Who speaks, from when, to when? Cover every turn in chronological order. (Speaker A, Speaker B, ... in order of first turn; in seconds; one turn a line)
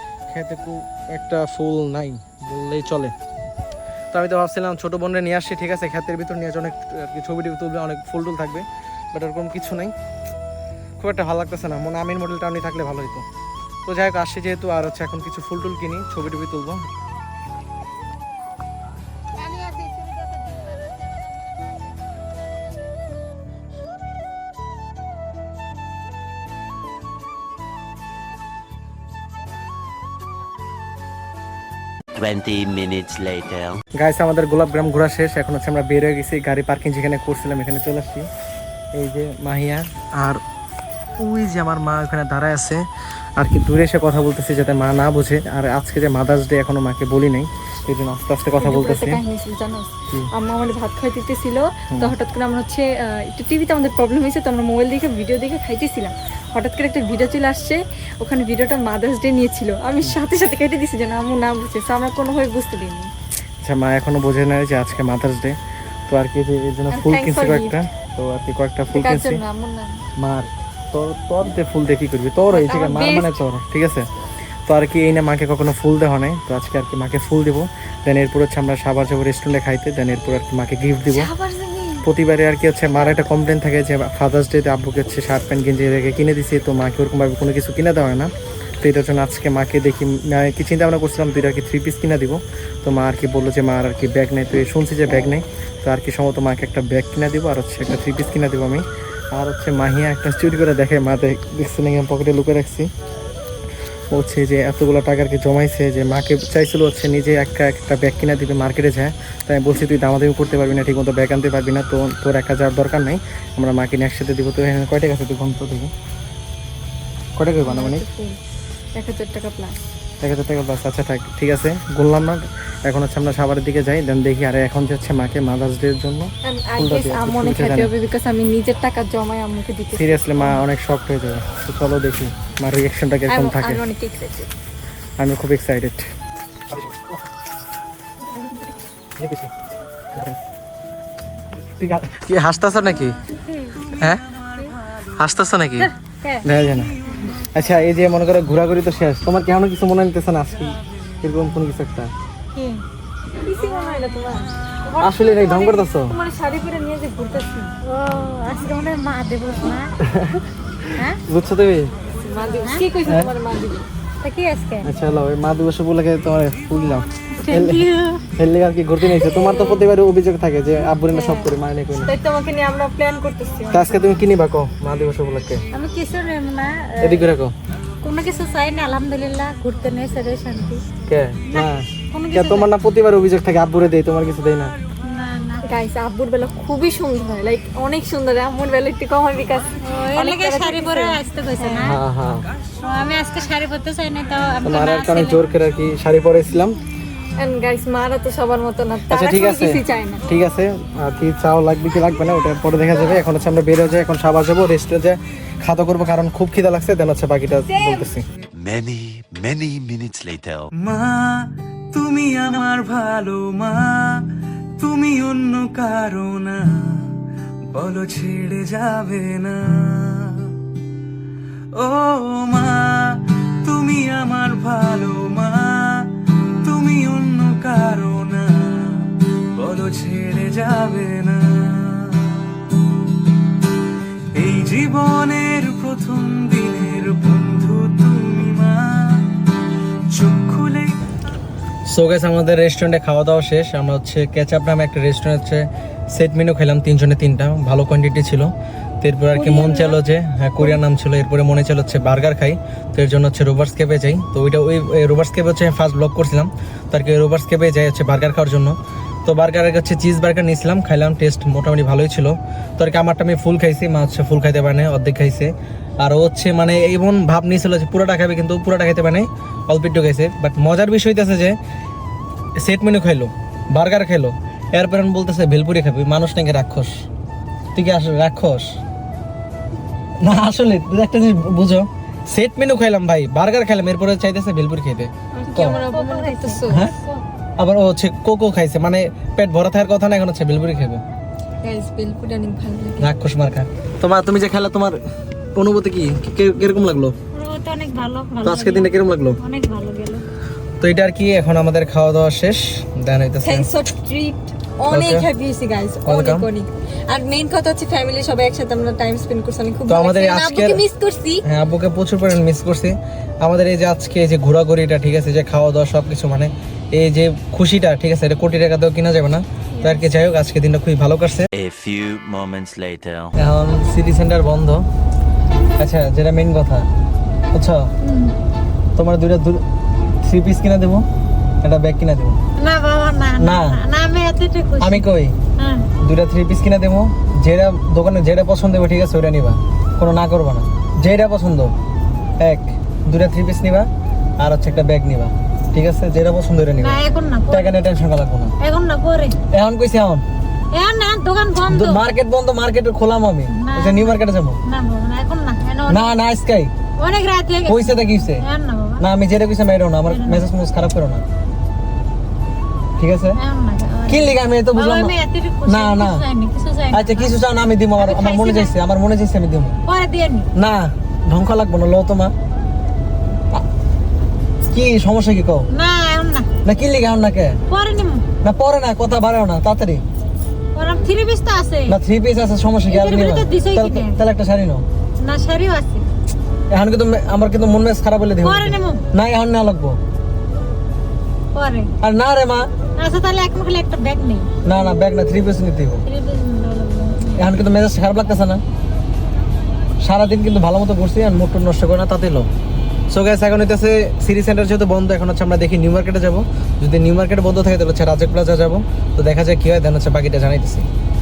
Speaker A: 0.3-3.1
Speaker A: 4.1-9.9
Speaker A: 11.0-13.2
Speaker A: 13.8-16.8
Speaker B: 19.5-20.6
Speaker C: 32.1-33.8
Speaker A: 34.0-38.3
Speaker A: 38.9-40.4
Speaker A: 41.2-42.8
Speaker A: 43.4-49.2
Speaker B: 48.6-63.1
Speaker A: 63.6-65.6
Speaker A: 66.1-69.4
Speaker B: 66.9-67.8
Speaker B: 68.9-70.0
Speaker A: 70.2-74.1
Speaker B: 72.5-73.4
Speaker A: 74.7-81.3
Speaker B: 81.1-82.0
Speaker A: 82.0-98.8
Speaker A: 99.3-102.9
Speaker A: 104.1-115.9
Speaker A: 117.4-118.0
Speaker B: 117.6-118.4
Speaker B: 118.9-119.8
Speaker A: 120.2-127.9
Speaker B: 126.4-130.6
Speaker A: 130.0-133.8
Speaker B: 133.3-134.5
Speaker A: 135.2-136.1
Speaker A: 136.7-137.1
Speaker A: 139.2-139.5
Speaker A: 140.1-140.4
Speaker A: 141.8-143.2
Speaker A: 144.0-144.2
Speaker A: 145.2-145.9
Speaker D: 145.8-146.4
Speaker A: 146.4-146.9
Speaker A: 147.5-152.1
Speaker D: 152.5-152.8
Speaker B: 153.4-154.5
Speaker D: 154.9-155.8
Speaker A: 155.0-156.1
Speaker B: 155.3-157.7
Speaker D: 157.8-159.9
Speaker A: 160.0-160.4
Speaker A: 161.2-161.9
Speaker B: 162.2-163.9
Speaker D: 164.2-164.9
Speaker A: 164.8-172.1
Speaker D: 167.3-168.2
Speaker B: 169.2-169.8
Speaker B: 171.0-171.5
Speaker B: 172.0-174.2
Speaker A: 173.7-175.6
Speaker D: 175.7-177.3
Speaker A: 177.0-177.5
Speaker D: 178.0-180.8
Speaker A: 181.1-184.7
Speaker D: 181.5-182.7
Speaker D: 185.0-185.6
Speaker B: 185.6-191.9
Speaker D: 189.8-192.0
Speaker A: 191.8-192.4
Speaker D: 192.8-195.5
Speaker A: 194.6-196.8
Speaker B: 197.4-200.2
Speaker A: 199.1-208.2
Speaker B: 207.7-208.1
Speaker C: 208.5-210.7
Speaker E: 210.8-214.2
Speaker E: 214.8-217.1
Speaker E: 217.7-220.5
Speaker E: 221.7-226.1
Speaker E: 226.6-232.5
Speaker E: 234.4-239.3
Speaker E: 240.1-240.9
Speaker A: 241.9-271.6
Speaker B: 249.3-250.0
Speaker A: 272.6-276.9
Speaker A: 277.7-278.8
Speaker A: 280.2-285.8
Speaker B: 285.3-286.9
Speaker D: 285.5-286.6
Speaker A: 287.6-291.0
Speaker B: 291.6-293.1
Speaker A: 293.0-295.0
Speaker A: 295.6-297.1
Speaker D: 297.3-300.2
Speaker A: 298.4-299.4
Speaker A: 300.8-303.7
Speaker B: 303.4-311.4
Speaker A: 304.9-305.3
Speaker A: 306.0-306.4
Speaker A: 309.9-310.8
Speaker A: 311.4-321.5
Speaker C: 321.5-323.3
Speaker A: 323.4-324.8
Speaker A: 325.8-326.9
Speaker A: 327.5-327.9
Speaker D: 328.0-328.3
Speaker A: 329.0-329.6
Speaker A: 330.2-331.1
Speaker A: 331.6-332.4
Speaker D: 332.6-335.1
Speaker A: 333.4-333.8
Speaker A: 334.8-335.3
Speaker D: 335.6-335.9
Speaker A: 336.0-341.7
Speaker A: 342.4-343.9
Speaker A: 344.4-347.0
Speaker D: 346.8-347.8
Speaker A: 347.5-348.5
Speaker D: 348.6-349.4
Speaker A: 349.5-350.2
Speaker D: 350.7-352.0
Speaker A: 351.7-354.6
Speaker D: 353.5-356.1
Speaker A: 355.9-356.7
Speaker D: 357.0-359.0
Speaker A: 357.7-358.4
Speaker A: 359.0-361.2
Speaker D: 360.1-360.4
Speaker A: 363.0-363.4
Speaker D: 363.4-367.4
Speaker A: 364.1-365.1
Speaker A: 365.6-366.2
Speaker A: 366.9-369.8
Speaker D: 368.0-368.7
Speaker D: 369.9-370.5
Speaker A: 370.6-372.3
Speaker A: 374.7-375.6
Speaker D: 375.7-376.5
Speaker A: 376.6-377.6
Speaker D: 377.7-378.2
Speaker A: 378.4-380.0
Speaker D: 380.7-382.0
Speaker A: 381.9-384.8
Speaker D: 382.9-384.2
Speaker D: 385.2-386.1
Speaker A: 386.7-390.0
Speaker D: 388.4-389.0
Speaker D: 391.5-391.9
Speaker A: 392.0-392.7
Speaker D: 393.0-394.7
Speaker A: 394.6-396.0
Speaker D: 396.1-397.5
Speaker A: 397.4-398.6
Speaker A: 400.0-402.5
Speaker A: 403.1-410.9